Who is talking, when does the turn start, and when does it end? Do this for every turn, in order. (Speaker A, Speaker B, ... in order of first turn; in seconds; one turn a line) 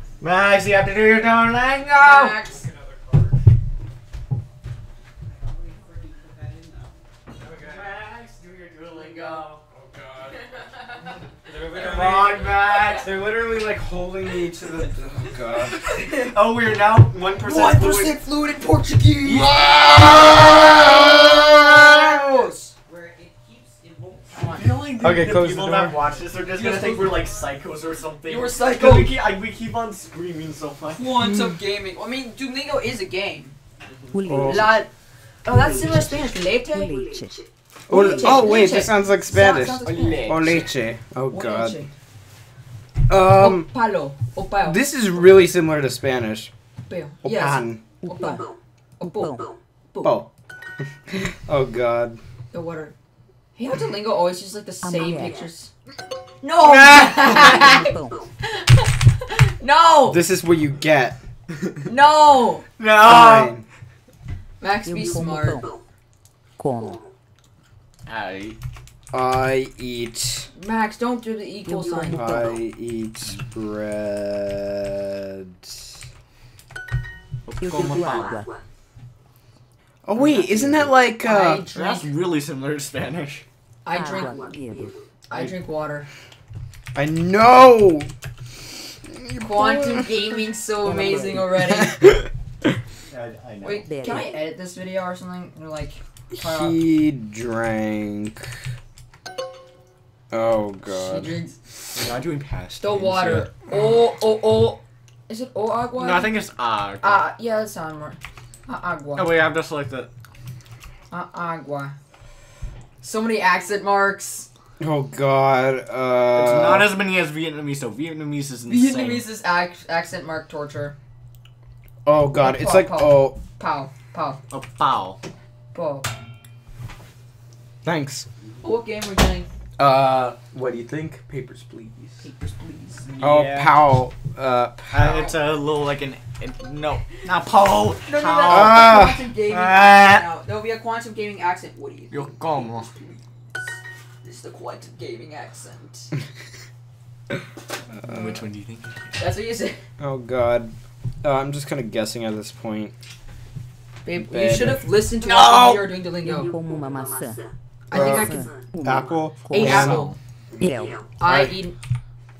Speaker A: 0.2-2.4
Speaker B: 1.9-2.7
Speaker A: 7.4-9.6
Speaker C: 9.7-10.4
Speaker C: 11.4-15.8
Speaker A: 11.7-13.1
Speaker A: 15.7-18.2
Speaker B: 17.4-22.8
Speaker A: 19.3-22.1
Speaker B: 24.3-24.7
Speaker A: 24.3-31.1
Speaker C: 25.0-26.0
Speaker B: 26.5-27.2
Speaker B: 28.2-29.1
Speaker B: 30.9-33.6
Speaker D: 34.1-34.8
Speaker C: 34.3-34.7
Speaker B: 34.4-34.9
Speaker B: 35.5-37.3
Speaker D: 35.5-37.4
Speaker B: 37.9-40.6
Speaker C: 37.9-41.8
Speaker A: 39.8-40.7
Speaker B: 41.3-41.9
Speaker C: 43.1-43.7
Speaker B: 43.2-44.8
Speaker C: 44.6-46.5
Speaker B: 46.9-50.1
Speaker C: 47.2-47.8
Speaker D: 48.0-48.3
Speaker D: 49.0-49.5
Speaker C: 50.0-50.3
Speaker C: 51.1-52.2
Speaker B: 52.5-52.9
Speaker B: 53.5-55.7
Speaker D: 54.8-55.3
Speaker B: 56.4-60.2
Speaker A: 56.6-57.6
Speaker D: 57.2-58.2
Speaker C: 60.1-61.2
Speaker B: 61.9-62.7
Speaker A: 62.8-63.5
Speaker C: 63.0-63.6
Speaker B: 64.6-65.7
Speaker D: 64.8-65.6
Speaker D: 66.6-67.0
Speaker A: 68.0-68.6
Speaker C: 69.1-70.5
Speaker B: 70.5-72.2
Speaker D: 71.7-72.6
Speaker C: 72.1-75.7
Speaker A: 77.5-78.4
Speaker D: 77.6-78.5
Speaker C: 80.0-81.7
Speaker A: 80.2-80.9
Speaker B: 81.2-82.1
Speaker A: 81.7-83.4
Speaker B: 83.8-84.5
Speaker D: 83.9-85.0
Speaker B: 85.3-86.1
Speaker C: 86.9-88.1
Speaker B: 89.3-92.2
Speaker C: 89.4-90.0
Speaker D: 90.8-91.6
Speaker A: 93.1-94.2
Speaker B: 93.6-96.8
Speaker D: 93.8-94.3
Speaker C: 96.3-98.5
Speaker C: 100.3-101.4
Speaker B: 100.8-101.6
Speaker A: 101.9-103.5
Speaker B: 102.8-106.3
Speaker A: 106.0-107.3
Speaker B: 107.0-109.4
Speaker A: 109.2-110.1
Speaker B: 111.1-111.9
Speaker B: 113.0-114.5
Speaker C: 114.8-117.0
Speaker A: 116.3-119.3
Speaker B: 118.7-121.0
Speaker C: 122.0-123.4
Speaker B: 122.3-124.4
Speaker A: 124.5-125.2
Speaker B: 125.7-126.1
Speaker C: 127.8-128.3
Speaker B: 128.6-129.4
Speaker C: 129.8-132.2
Speaker B: 132.2-133.1
Speaker A: 133.1-133.8
Speaker C: 133.2-135.2
Speaker A: 134.9-138.9
Speaker B: 135.0-135.4
Speaker B: 138.0-146.1
Speaker C: 138.4-139.3
Speaker A: 139.4-140.2
Speaker A: 142.1-142.9
Speaker C: 147.9-148.4
Speaker A: 148.0-149.2
Speaker B: 149.2-149.8
Speaker C: 150.0-152.9
Speaker B: 154.0-156.5
Speaker C: 154.2-155.8
Speaker D: 156.2-160.0
Speaker B: 157.9-158.5
Speaker C: 157.9-158.3
Speaker C: 158.8-160.1
Speaker B: 159.5-160.2
Speaker D: 160.6-161.0
Speaker B: 161.2-161.8